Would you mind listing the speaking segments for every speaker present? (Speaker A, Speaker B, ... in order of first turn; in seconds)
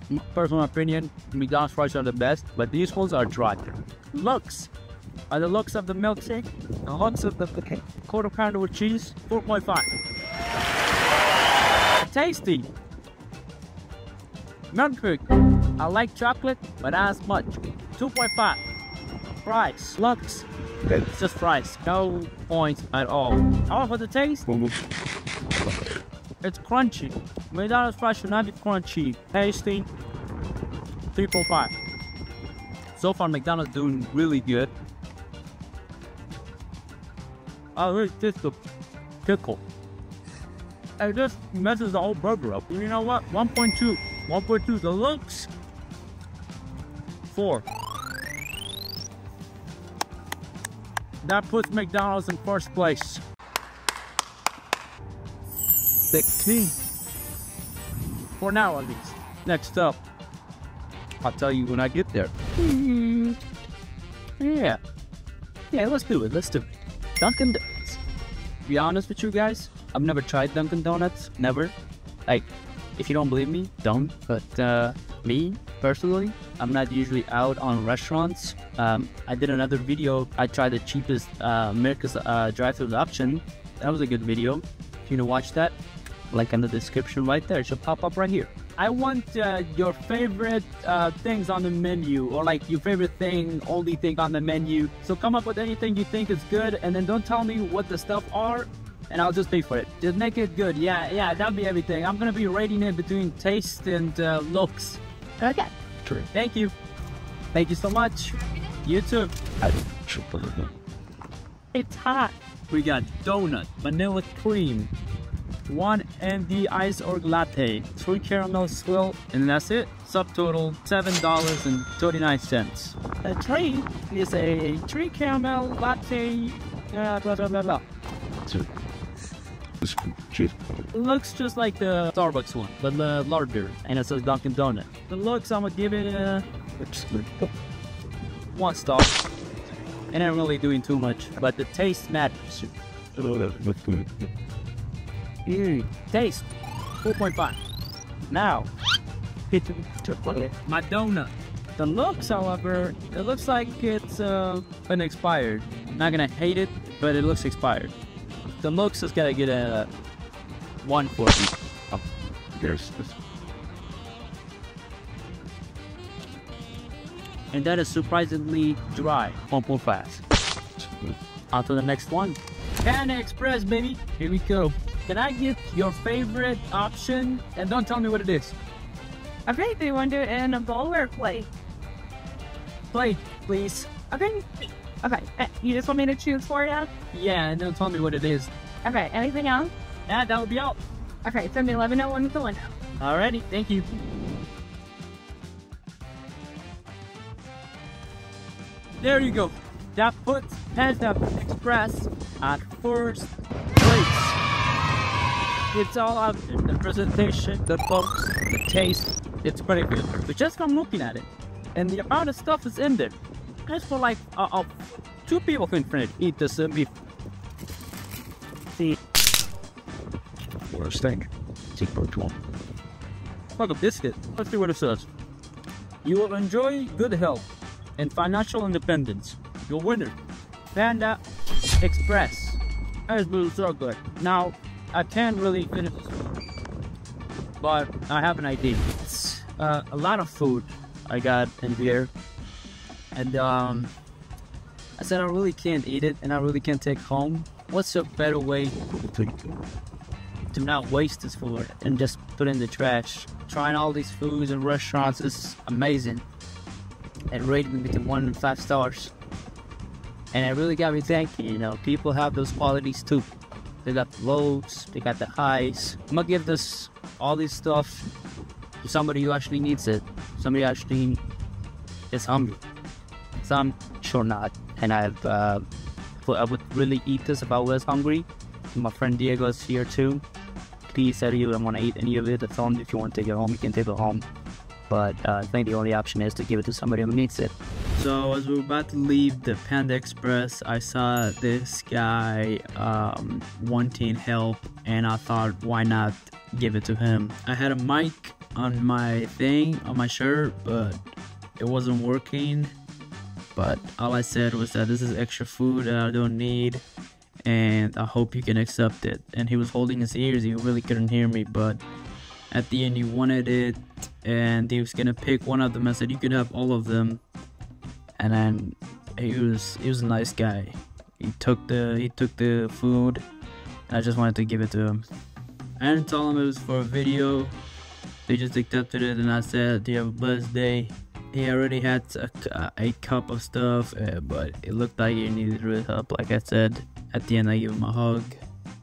Speaker A: 0.1-4.7, 5.3-9.9, 12.0-12.7, 14.7-18.6, 19.4-20.5, 21.1-24.5, 26.4-29.9, 31.1-31.7, 33.0-34.7, 37.8-38.6, 39.2-39.6, 41.0-45.5, 47.3-47.6, 51.2-53.2, 56.1-56.8, 58.4-60.0, 61.2-63.4, 64.4-64.8, 65.7-68.0, 68.7-71.7, 72.3-85.8, 86.3-105.0, 106.3-106.7, 107.5-109.3, 112.7-114.9, 115.7-127.8, 130.9-136.4, 138.5-139.2, 140.1-142.7, 145.5-146.5, 147.0-147.6, 148.3-148.7, 150.6-157.9, 158.6-159.9, 160.8-161.5, 167.5-170.2, 171.5-178.6, 182.9-183.9, 187.1-188.5, 190.1-190.8, 193.0-193.9, 199.0-204.4, 205.7-214.7, 215.3-216.9, 223.6-225.1, 226.0-230.1, 230.7-231.2, 231.8-236.1, 237.6-242.1, 243.2-243.9, 245.0-248.8, 250.5-256.2, 257.3-259.1, 260.3-263.3, 263.8-268.1, 268.8-271.2, 272.1-272.6, 273.4-275.7, 276.2-280.2, 280.9-284.2, 284.9-301.0, 301.6-302.7, 303.6-306.8, 307.4-311.8, 312.5-317.2, 318.2-323.2, 323.9-325.1, 325.8-327.6, 328.3-338.4
Speaker B: 24.5-24.9, 25.6-26.0, 109.6-110.7, 129.8-130.7, 136.8-137.5, 143.2-144.3, 149.5-150.5, 161.9-163.2, 170.8-171.2, 220.7-222.4, 248.9-249.6
Speaker C: 105.4-105.7, 111.7-112.3, 179.5-181.5, 184.1-184.4, 185.0-186.9, 188.8-189.7, 191.2-192.7